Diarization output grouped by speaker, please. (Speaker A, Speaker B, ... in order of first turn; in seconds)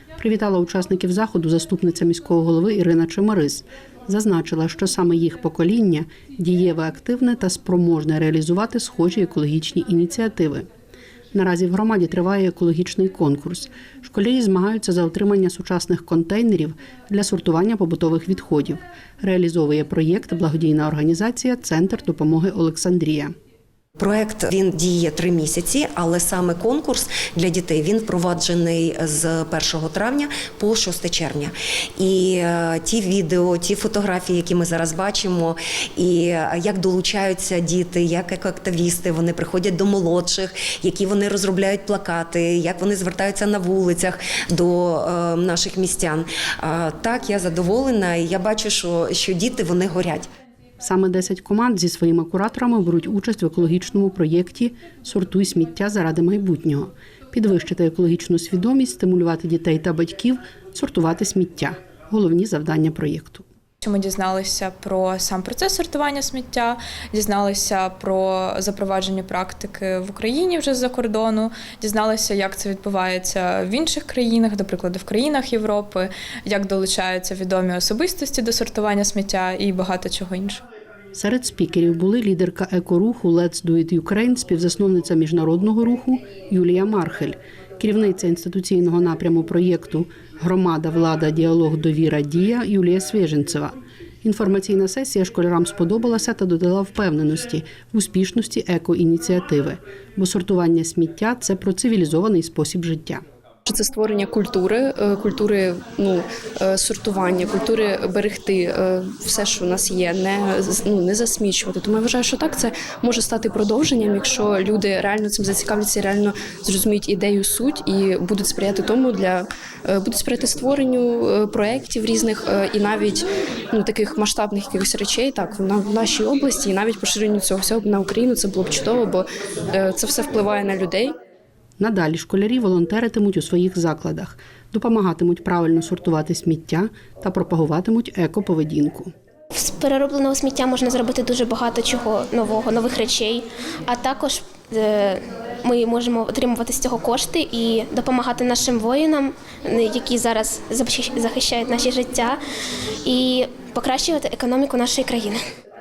Speaker A: 0.2-10.7, 11.3-23.3, 50.8-63.5, 81.2-103.2, 131.8-139.1
Speaker B: 24.0-50.3
Speaker C: 63.8-80.6
Speaker D: 103.7-131.1
Speaker E: 139.5-152.4, 153.1-155.4